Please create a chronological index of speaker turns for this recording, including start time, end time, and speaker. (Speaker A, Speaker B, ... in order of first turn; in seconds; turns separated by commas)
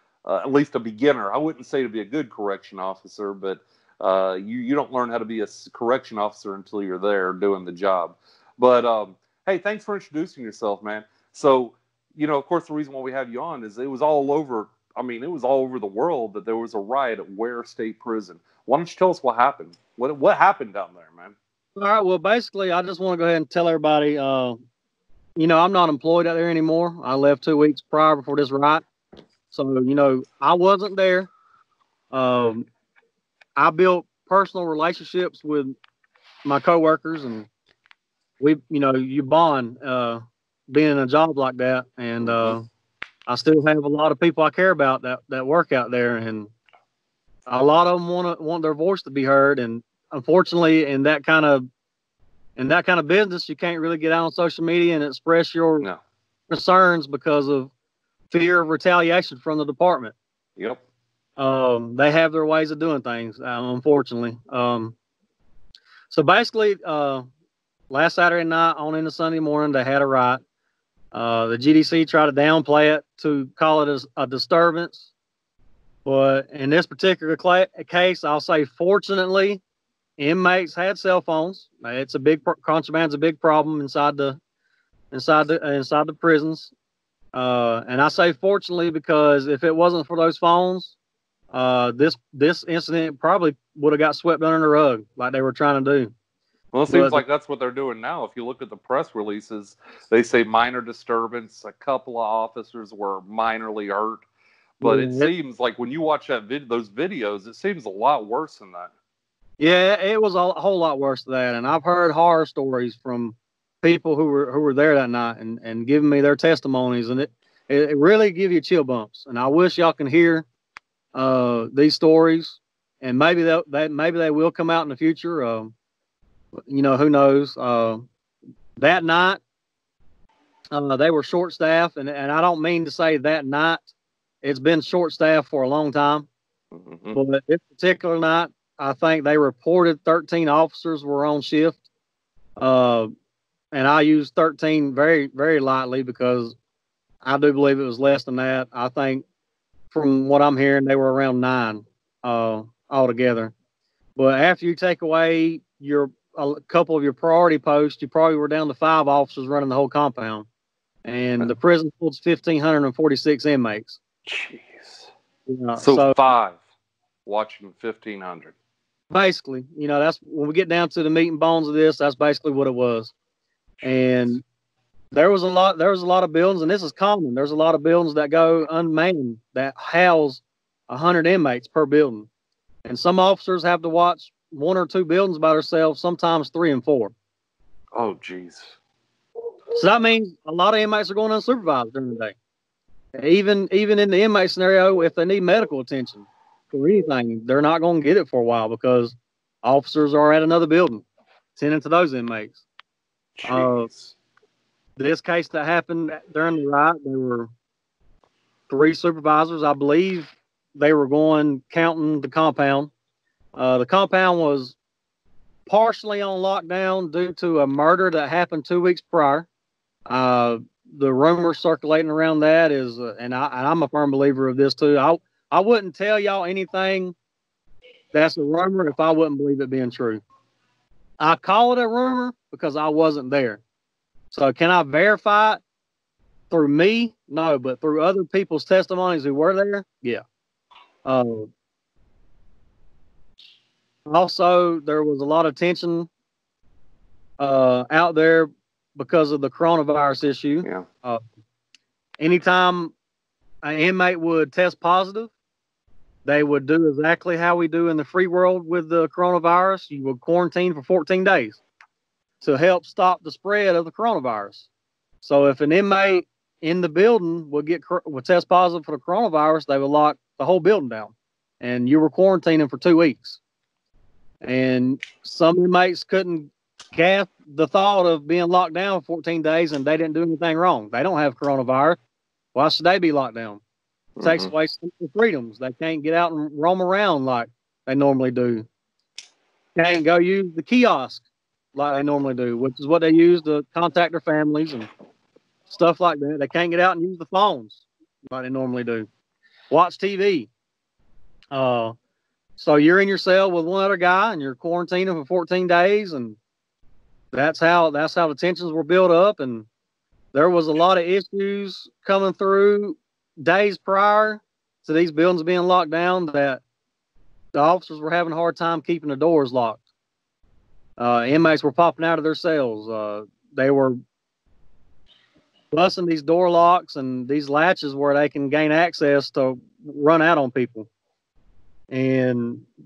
Speaker A: 0.2-21.4, Speaker B: 21.8-24.6, Speaker B: 25.4-28.8, Speaker B: 29.5-31.3, Speaker B: 32.1-32.7, Speaker B: 33.6-35.8, Speaker B: 36.5-37.5, Speaker B: 38.4-42.7, Speaker A: 42.2-42.6, Speaker B: 43.3-46.5, Speaker B: 47.5-51.7, Speaker B: 52.6-55.9, Speaker B: 56.5-57.7, Speaker B: 58.3-60.1, Speaker B: 61.4-65.0, Speaker B: 66.1-67.3, Speaker B: 67.9-70.4, Speaker B: 71.1-75.1, Speaker B: 76.0-79.6, Speaker B: 80.2-84.4, Speaker B: 85.1-86.7, Speaker B: 87.3-91.0, Speaker B: 91.5-96.1, Speaker A: 96.7-104.2, Speaker B: 96.9-97.2, Speaker A: 104.8-108.9, Speaker B: 104.8-105.3, Speaker B: 109.6-120.5, Speaker B: 121.1-125.7, Speaker B: 126.7-128.1, Speaker B: 128.8-129.4, Speaker B: 130.7-133.9, Speaker B: 134.4-136.3, Speaker A: 136.7-137.2, Speaker B: 137.1-141.8, Speaker B: 142.6-143.1, Speaker B: 143.7-146.6, Speaker B: 147.2-149.2, Speaker B: 149.9-153.5, Speaker B: 154.2-160.5, Speaker B: 161.1-164.0, Speaker A: 164.3-165.1, Speaker B: 165.5-166.2, Speaker A: 165.8-166.6, Speaker A: 167.3-168.5, Speaker B: 169.1-173.1, Speaker A: 173.8-174.4, Speaker B: 173.8-174.4, Speaker B: 175.1-182.3, Speaker B: 182.8-187.1, Speaker A: 187.9-188.7, Speaker B: 189.8-192.4, Speaker B: 193.2-201.1, Speaker B: 201.6-202.6, Speaker A: 203.4-204.1, Speaker B: 203.5-203.9, Speaker B: 205.0-207.5, Speaker B: 208.7-212.9, Speaker B: 213.6-214.8, Speaker B: 215.7-219.5, Speaker B: 220.1-227.2, Speaker B: 228.1-230.2, Speaker B: 231.2-233.6, Speaker B: 234.3-235.6, Speaker B: 236.5-240.2, Speaker B: 241.1-241.5, Speaker B: 244.1-246.1, Speaker B: 247.4-251.2, Speaker B: 252.2-252.9, Speaker B: 253.6-255.3, Speaker B: 256.2-261.6, Speaker B: 262.4-264.7, Speaker B: 265.2-273.4, Speaker B: 274.4-282.0, Speaker B: 282.5-283.6, Speaker A: 284.2-284.5, Speaker B: 284.2-288.7, Speaker B: 289.8-294.9, Speaker B: 295.7-299.1, Speaker B: 299.7-300.5, Speaker B: 301.5-302.0, Speaker B: 302.6-306.4, Speaker B: 307.3-309.7, Speaker B: 310.3-316.6, Speaker B: 317.5-319.8, Speaker B: 321.0-324.0, Speaker B: 325.7-330.9, Speaker B: 331.9-332.6